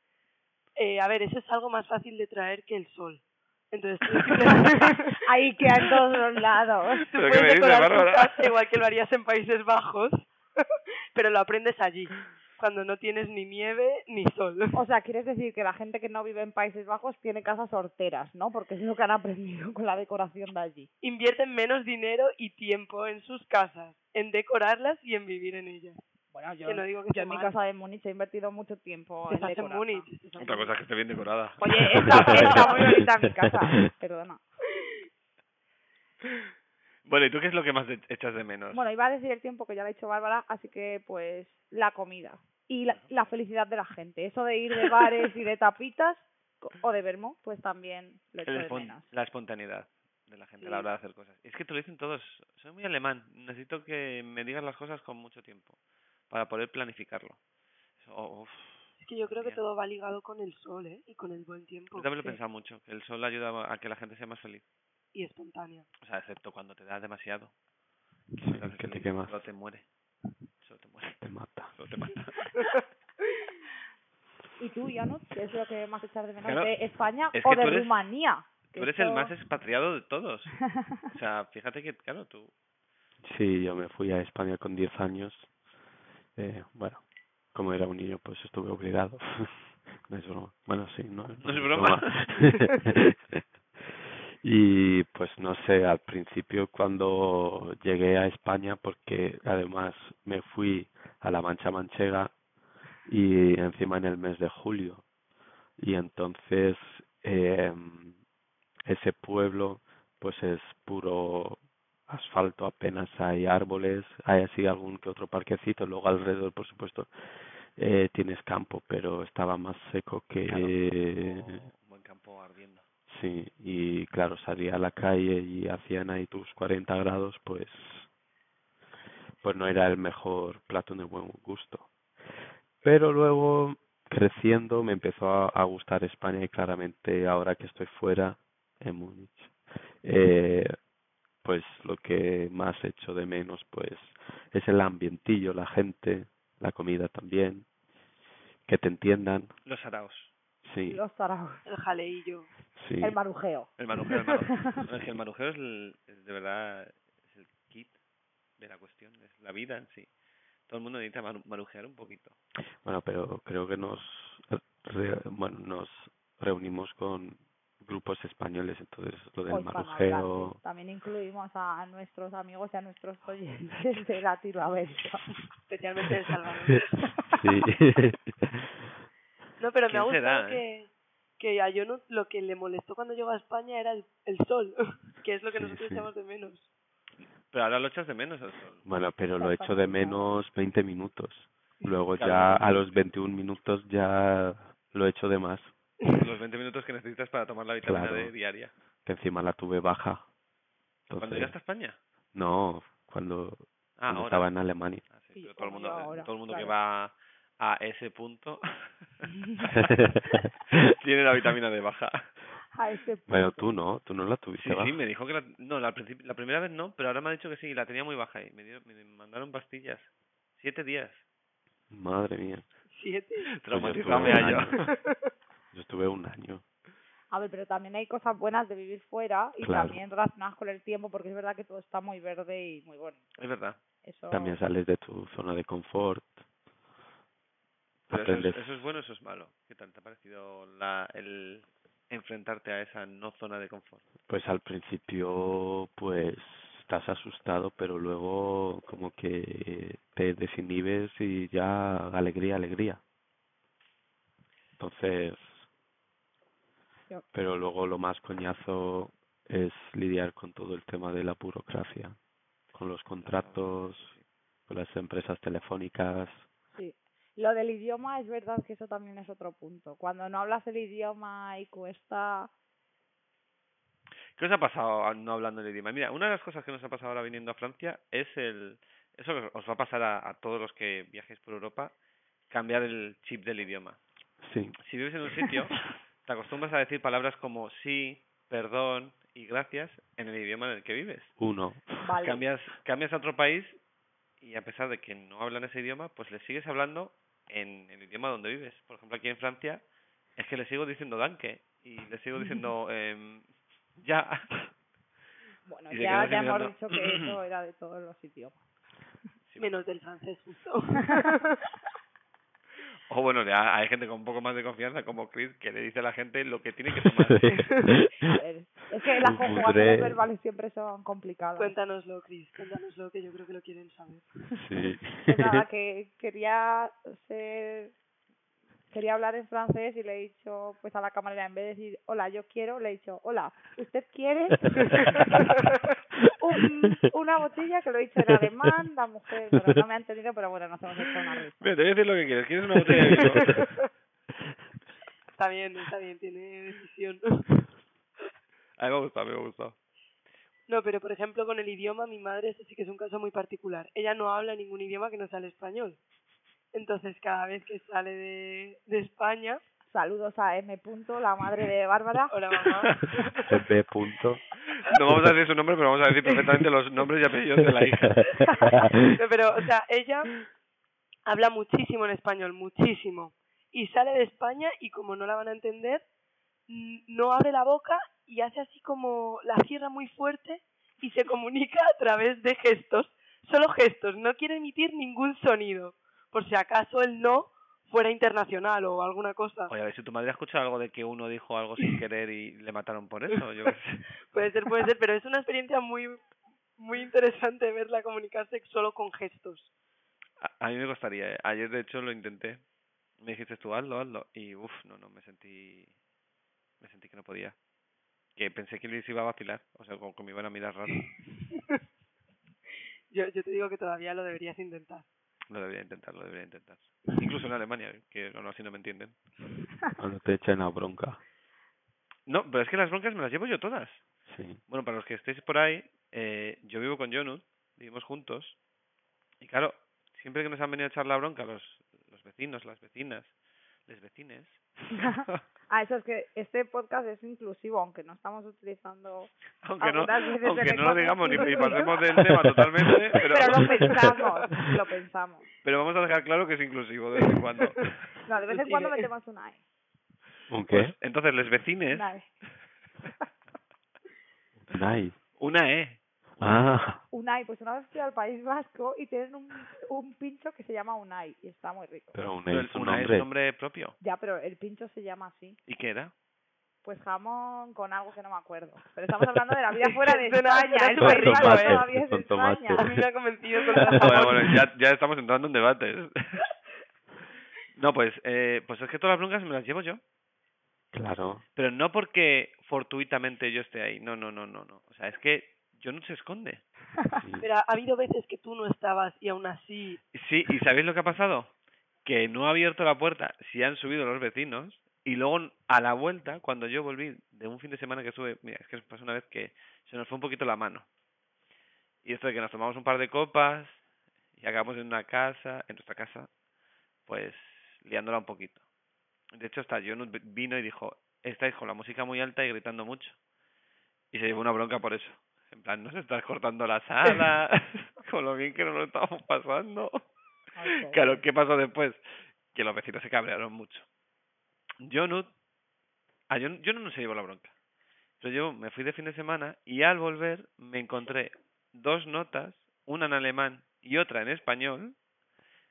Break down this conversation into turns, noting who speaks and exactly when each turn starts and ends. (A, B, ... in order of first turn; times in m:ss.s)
0:00.8-0:05.2 A
0:05.3-0:07.0 B
0:07.0-0:10.3 A
0:07.1-0:08.5 C
0:11.2-0:14.8 A
0:14.7-0:20.9 B
0:21.0-0:26.0 A
0:26.3-0:30.1 B
0:26.6-0:27.5 A
0:29.3-0:30.8 A
0:30.4-0:32.8 C
0:31.6-0:34.4 B
0:32.1-0:32.8 A
0:37.0-0:38.8 C
0:38.7-0:49.1 B
0:48.5-0:55.8 C
0:50.6-0:50.9 A
0:56.3-0:57.4 C
0:58.0-0:59.6 C
0:59.0-1:02.4 A
1:02.0-1:04.6 C
1:05.1-1:05.9 A
1:06.0-1:07.5 C
1:08.4-1:09.4 D
1:08.5-1:09.9 C
1:10.6-1:11.2 C
1:11.2-1:11.7 D
1:11.7-1:12.7 C
1:14.6-1:19.3 B
1:16.4-1:16.8 C
1:17.3-1:18.0 C
1:18.7-1:20.6 C
1:21.1-1:22.5 C
1:23.2-1:25.5 D
1:26.4-1:27.0 D
1:27.5-1:33.4 D
1:31.4-1:32.2 C
1:34.4-1:42.3 D
1:43.1-1:45.0 D
1:45.8-1:48.2 D
1:48.9-1:57.1 D
1:57.8-2:01.6 D
2:00.5-2:02.8 C
2:03.1-2:08.1 D
2:09.4-2:11.9 D
2:12.8-2:20.8 D
2:21.4-2:27.7 D
2:28.7-2:29.6 D
2:29.7-2:30.3 C
2:30.6-2:31.0 D
2:30.9-2:31.6 B
2:31.7-2:32.5 A
2:32.8-2:33.2 D
2:33.0-2:33.7 B
2:33.8-2:38.0 C
2:38.6-2:40.1 C
2:40.7-2:42.4 C
2:42.8-2:50.6 D
2:49.5-2:55.2 B
2:55.7-2:57.0 A
2:57.3-2:58.6 D
2:59.6-3:06.7 A
2:59.9-3:00.6 C
3:05.5-3:06.1 D
3:07.5-3:08.8 C
3:08.8-3:15.7 D
3:09.4-3:10.4 B
3:12.2-3:13.0 C
3:16.1-3:18.7 C
3:17.8-3:18.3 D
3:19.0-3:20.2 D
3:21.1-3:21.5 D
3:21.2-3:22.0 C
3:22.3-3:25.0 D
3:24.0-3:24.5 C
3:25.1-3:29.1 C
3:25.4-3:26.8 B
3:29.6-3:29.9 C
3:29.8-3:30.4 D
3:30.7-3:32.3 C
3:32.8-3:33.7 B
3:33.3-3:35.0 D
3:34.6-3:41.2 C
3:41.9-3:42.7 D
3:42.9-3:43.5 A
3:43.5-3:44.8 C
3:43.7-3:44.8 D
3:44.1-3:45.3 A
3:45.7-3:46.6 D
3:47.3-3:53.2 B
3:49.6-3:50.0 D
3:53.4-3:53.8 C
3:54.0-3:54.6 B
3:54.3-3:56.4 D
3:58.1-4:04.0 C
3:58.1-3:58.7 D
4:04.3-4:13.0 D
4:14.8-4:15.7 D
4:17.3-4:22.2 D
4:22.7-4:24.1 D
4:23.2-4:24.2 C
4:24.7-4:26.5 D
4:26.8-4:32.5 B
4:34.4-4:41.9 C
4:42.5-4:44.0 C
4:44.4-4:44.8 D
4:44.8-4:51.3 C
4:51.4-4:52.1 D
4:52.0-4:52.4 B
4:52.2-4:53.8 C
4:54.4-4:59.8 C
5:00.4-5:03.5 C
5:04.0-5:04.6 C
5:05.7-5:08.6 B
5:05.9-5:07.4 C
5:09.5-5:09.8 C
5:09.6-5:11.6 A
5:13.1-5:17.6 C
5:17.4-5:17.9 D
5:17.5-5:18.0 A
5:18.3-5:21.8 B
5:19.2-5:20.2 D
5:21.6-5:24.3 A
5:24.6-5:25.6 D
5:25.2-5:27.9 B
5:28.9-5:35.4 B
5:35.0-5:35.2 A
5:36.3-5:41.8 B
5:41.6-5:43.6 C
5:43.4-5:43.8 A
5:45.4-5:47.6 A
5:48.8-5:49.8 C
5:50.7-5:56.0 A
5:56.7-5:59.6 A
5:59.9-6:02.3 B
6:02.3-6:03.5 A
6:03.5-6:04.4 D
6:04.8-6:08.3 C
6:08.3-6:10.3 A
6:11.3-6:16.0 A
6:16.7-6:29.7 A
6:29.7-6:34.1 C
6:34.3-6:39.7 A
6:40.4-6:42.6 C
6:43.2-6:45.9 C
6:46.8-6:47.6 C
6:48.4-6:51.1 C
6:51.5-6:51.8 A
6:53.1-6:55.1 A
6:55.5-6:59.2 C
7:00.0-7:01.2 D
7:02.3-7:04.0 C
7:04.3-7:04.6 D
7:04.7-7:08.6 C
7:09.4-7:13.3 C
7:13.9-7:14.7 C
7:14.9-7:21.9 B
7:19.6-7:24.0 C
7:21.4-7:21.8 A
7:23.2-7:25.4 B
7:25.6-7:27.9 C
7:27.4-7:27.9 A
7:28.3-7:29.6 B
7:28.5-7:29.1 A
7:30.5-7:30.9 D
7:30.7-7:32.1 C
7:31.9-7:32.3 B
7:34.7-7:35.2 D
7:35.4-7:36.6 C
7:36.4-7:37.0 D
7:37.1-7:42.2 B
7:42.1-7:43.3 D
7:42.5-7:44.0 C
7:44.0-7:45.6 B
7:45.7-7:46.1 C
7:46.8-7:52.9 B
7:49.8-7:51.9 A
7:51.0-7:53.0 D
7:52.8-7:54.6 A
7:53.8-7:54.2 D
7:54.0-7:56.5 C
7:57.8-8:00.0 C
8:00.9-8:01.4 D
8:01.6-8:06.6 C
8:07.2-8:07.5 D
8:07.4-8:10.0 A
8:10.1-8:11.5 C
8:12.0-8:20.9 C
8:22.0-8:23.8 C
8:24.4-8:26.3 C
8:27.1-8:28.6 C
8:29.3-8:33.2 C
8:34.1-8:40.0 C
8:40.6-8:41.2 B
8:40.7-8:43.9 C
8:44.8-8:45.3 C
8:46.3-8:47.5 C
8:48.2-8:55.0 C